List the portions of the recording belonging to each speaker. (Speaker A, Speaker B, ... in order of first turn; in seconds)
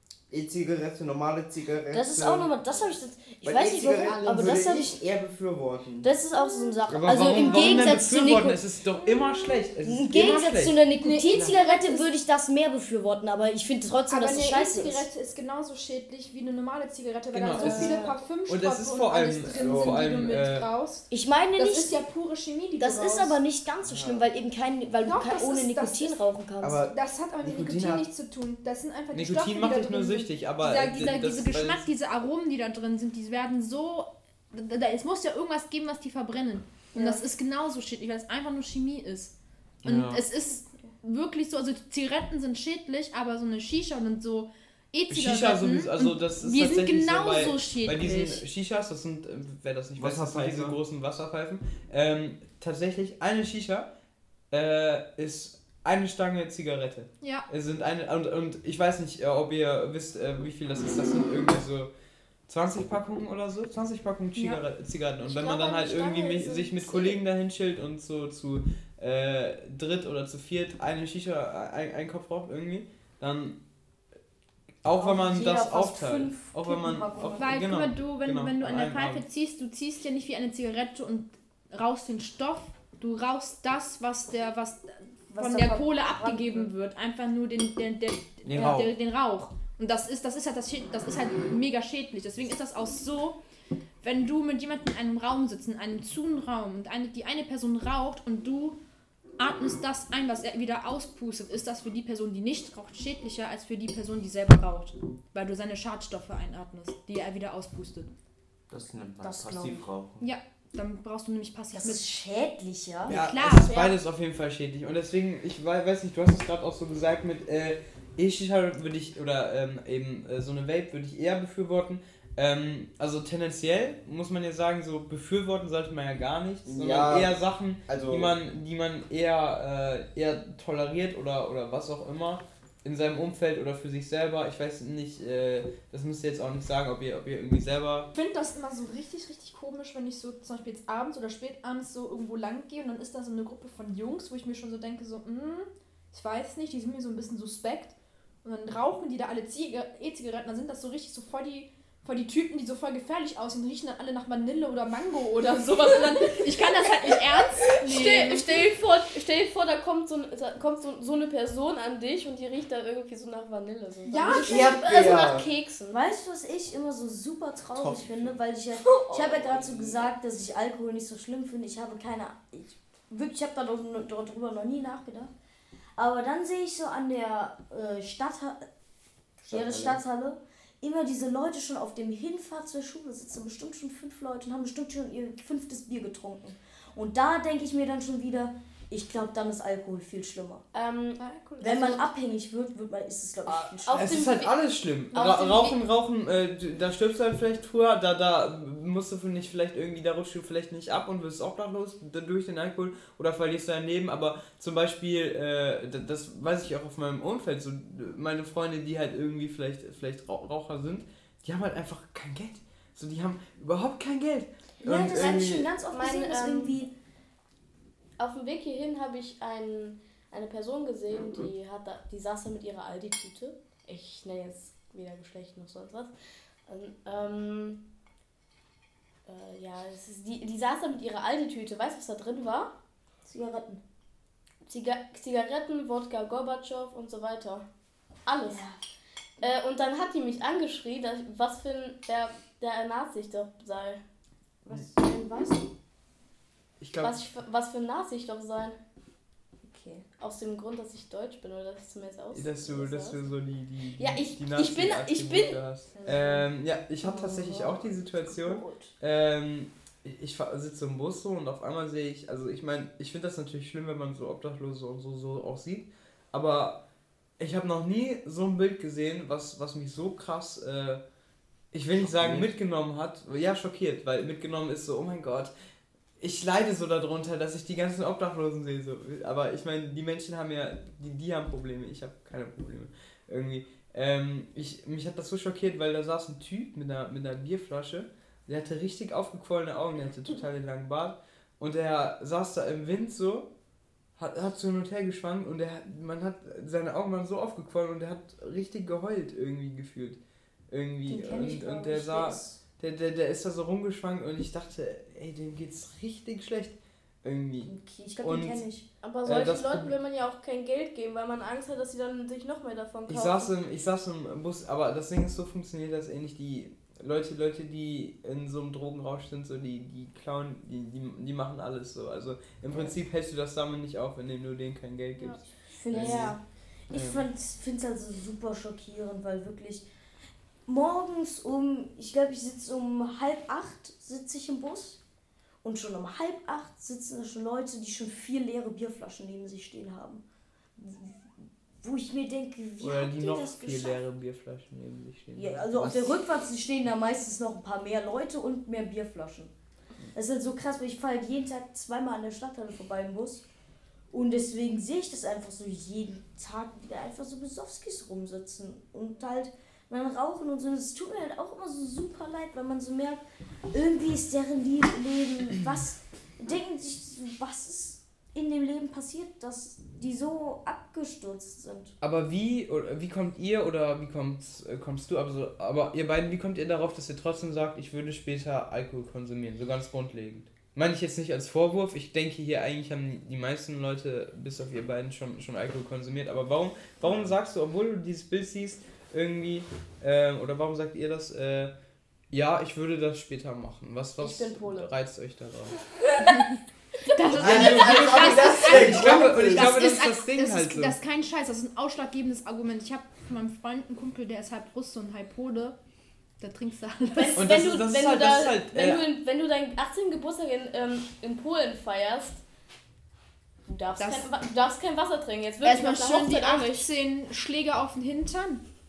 Speaker A: 0.3-2.5, 3.4-6.1, 19.4-20.1, 23.8-24.3, 26.6-28.1, 50.0-50.8, 88.5-88.8, 108.7-110.3, 126.7-128.4, 164.4-165.5, 167.8-168.4, 169.5-170.1, 179.5-180.0, 272.0-272.5, 345.7-346.2, 387.0-387.3, 397.3-399.8
Speaker B: 1.9-5.0, 6.0-8.6, 9.8-15.1, 17.6-18.1, 21.1-22.0, 22.8-26.9, 36.9-37.2, 74.9-77.5, 85.3-86.7, 109.2-109.9, 111.7-113.2, 165.9-175.3, 176.0-178.7, 179.4-190.6, 191.6-194.2, 214.8-216.9, 233.3-233.8, 238.5-238.8, 244.7-245.7, 249.7-250.1, 255.9-256.5, 257.0-258.9, 301.1-302.6, 307.6-308.9, 325.7-329.9, 330.7-335.0, 335.6-340.2, 340.8-341.3, 341.8-344.0, 345.4-349.5, 350.1-353.4, 354.1-371.9
Speaker C: 6.9-10.8, 17.3-20.7, 29.1-31.9, 39.8-40.2, 45.1-53.9, 54.5-61.9, 62.5-73.6, 74.8-79.2, 88.5-88.9, 113.1-138.1, 193.5-215.7, 246.8-247.2, 252.3-266.8, 267.4-271.0, 271.7-275.5, 276.2-293.5, 294.2-300.2, 300.7-308.6, 309.2-309.9, 313.1-326.4, 326.9-327.3, 342.8-345.6, 372.0-391.7, 392.3-395.8, 397.3-401.0, 407.4-409.1
Speaker D: 11.0-12.2, 14.1-23.4, 25.0-26.2, 26.8-48.4, 57.2-57.5, 64.4-64.6, 77.4-93.4, 94.0-98.8, 99.4-108.1, 110.2-112.1, 113.1-113.8, 138.1-158.7, 164.1-164.8, 191.2-192.0, 397.3-405.8, 406.4-407.5, 413.9-414.3, 415.6-418.6
Speaker E: 65.2-67.2, 113.6-114.0, 155.5-166.0, 168.9-169.1, 190.7-192.1, 193.8-194.6, 195.1-195.8, 215.9-216.8, 218.2-226.1, 226.7-227.8, 229.3-232.7, 234.7-237.7, 238.3-238.7, 239.4-244.0, 247.0-248.8, 250.2-253.2, 254.0-255.6, 309.0-313.5, 394.2-394.9, 397.1-397.4, 407.1-412.4, 413.7-416.9